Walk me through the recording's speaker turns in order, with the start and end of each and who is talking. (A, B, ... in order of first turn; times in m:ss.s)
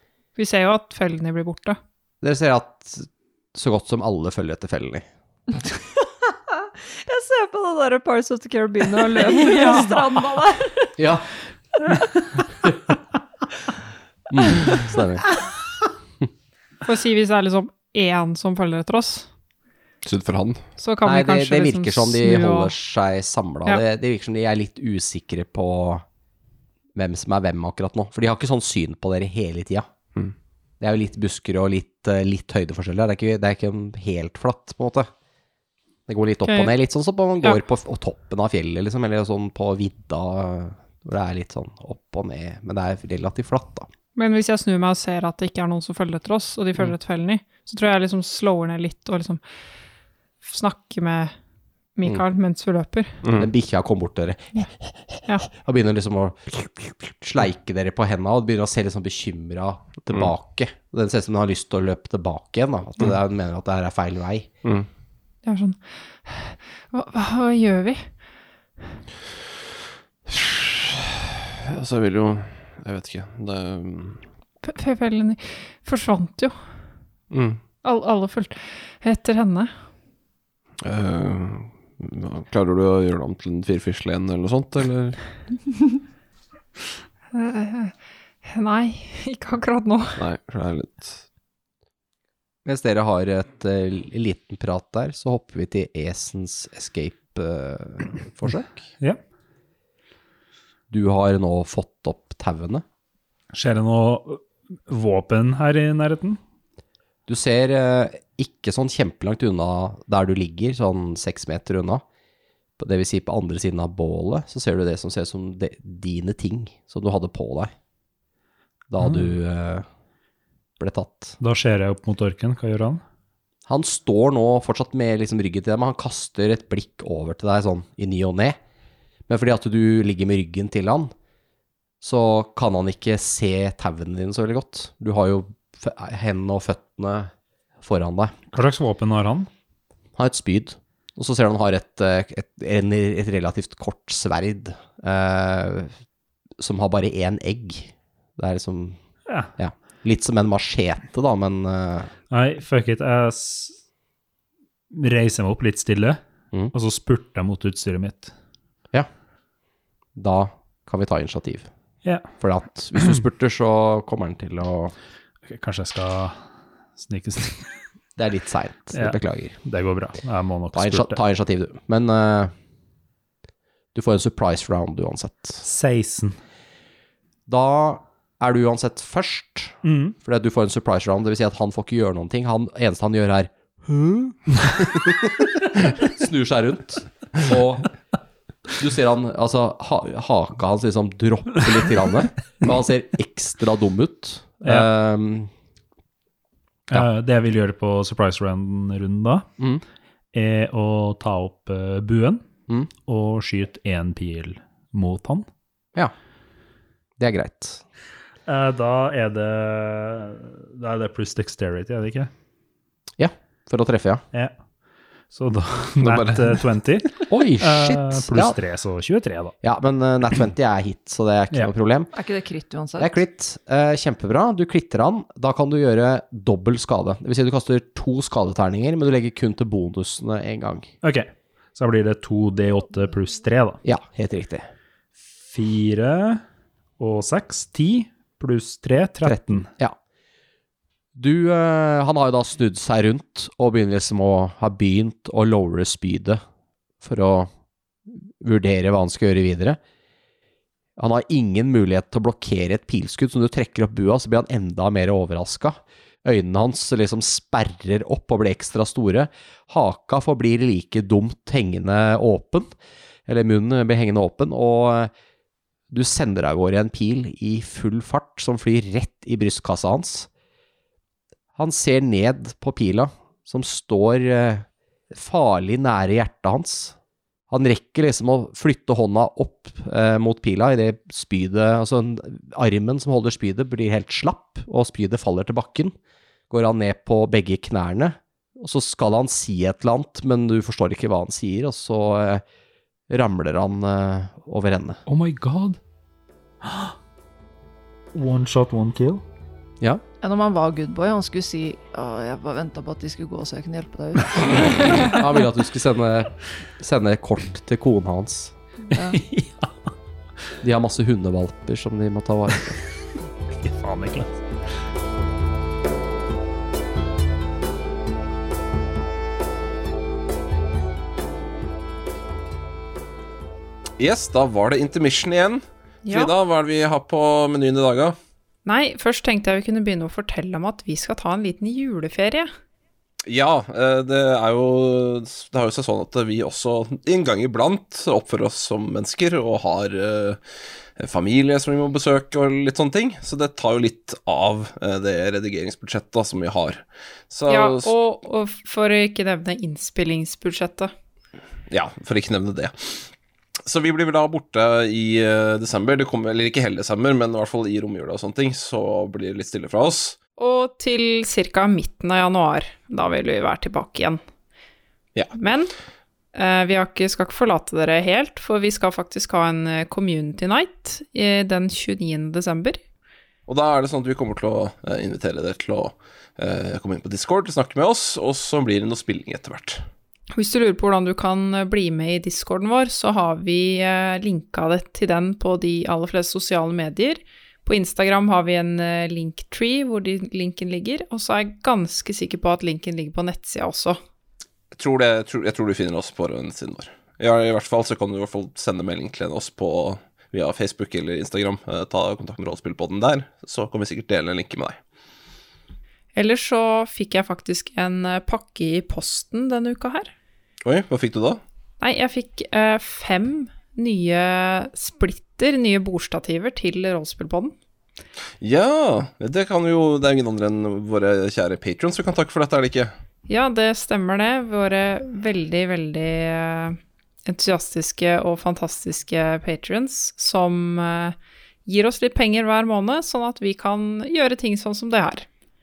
0:00.4-0:01.8 A
0:02.2-0:05.0 B
0:05.6-0:10.9 C
0:09.6-0:09.8 A
0:11.0-0:11.3 B
0:11.8-0:12.3 C
0:14.3-0:15.2 B
0:16.8-0:19.3 A
0:20.0-0:20.6 D
0:20.8-0:22.7 A
0:21.0-0:26.0 B
0:26.9-0:29.9 B
0:30.8-0:35.1 B
0:36.1-0:43.9 B
0:36.4-0:36.7 A
0:44.2-0:49.4 A
0:50.4-0:51.3 A
0:52.0-0:53.2 A
0:53.3-1:04.5 B
1:05.4-1:08.1 A
1:10.2-1:14.2 D
1:14.6-1:16.5 A
1:17.3-1:17.6 D
1:17.8-1:19.7 A
1:20.8-1:25.2 D
1:27.3-1:30.2 A
1:30.2-1:31.2 D
1:32.6-1:38.8 B
1:40.9-1:42.8 B
1:43.5-1:46.4 E
1:47.3-1:52.0 B
1:52.8-1:57.7 B
1:58.9-1:59.9 B
1:59.0-1:59.3 E
2:00.8-2:01.4 B
2:01.4-2:03.0 E
2:03.7-2:08.6 B
2:09.3-2:11.1 B
2:12.0-2:17.3 B
2:17.8-2:18.3 B
2:18.5-2:19.5 E
2:20.2-2:25.9 B
2:26.6-2:29.0 B
2:29.6-2:32.1 B
2:32.3-2:33.7 E
2:34.9-2:36.2 E
2:36.7-2:38.3 E
2:40.2-2:41.7 B
2:42.4-2:44.9 B
2:45.5-2:46.4 E
2:47.0-2:47.7 E
2:48.2-2:49.5 B
2:48.9-2:51.2 E
2:50.7-2:52.5 B
2:53.9-2:55.6 B
2:55.6-2:56.4 E
2:57.5-3:07.9 B
2:59.8-3:00.2 E
3:08.7-3:15.5 B
3:16.9-3:19.5 E
3:20.3-3:22.4 E
3:23.1-3:25.5 E
3:27.2-3:27.8 B
3:28.5-3:32.3 E
3:33.2-3:34.2 B
3:35.3-3:39.5 E
3:36.0-3:36.6 D
3:37.3-3:38.6 B
3:39.6-3:42.1 B
3:42.1-3:43.2 C
3:43.0-3:50.9 B
3:51.0-3:53.8 E
3:53.8-3:54.7 B
3:55.5-3:56.4 E
3:57.0-3:59.7 E
3:59.2-3:59.9 B
4:01.2-4:06.4 B
4:07.0-4:07.5 B
4:08.1-4:09.8 B
4:11.0-4:22.7 B
4:23.3-4:25.1 B
4:25.9-4:30.3 B
4:31.6-4:36.9 B
4:37.5-4:45.9 B
4:46.5-4:52.4 B
4:53.1-4:55.0 B
4:55.1-4:55.8 E
4:56.6-4:56.9 E
4:58.1-4:59.2 E
5:00.2-5:05.2 C
5:05.0-5:08.5 B
5:08.9-5:09.2 C
5:08.9-5:09.7 E
5:10.6-5:12.8 B
5:13.5-5:14.4 E
5:24.0-5:28.2 D
5:26.0-5:26.3 A
5:28.6-5:32.5 A
5:33.2-5:40.4 D
5:41.0-5:47.9 D
5:47.5-5:50.9 A
5:51.7-5:53.1 D
5:53.6-6:00.2 D
6:00.4-6:04.2 A
6:05.4-6:05.7 A
6:06.3-6:12.8 A
6:13.5-6:19.8 D
6:20.3-6:34.0 A
6:34.7-6:44.8 D
6:46.1-6:50.1 A
6:50.6-6:51.4 D
6:51.8-6:57.5 A
6:58.4-7:02.9 D
7:03.3-7:15.2 A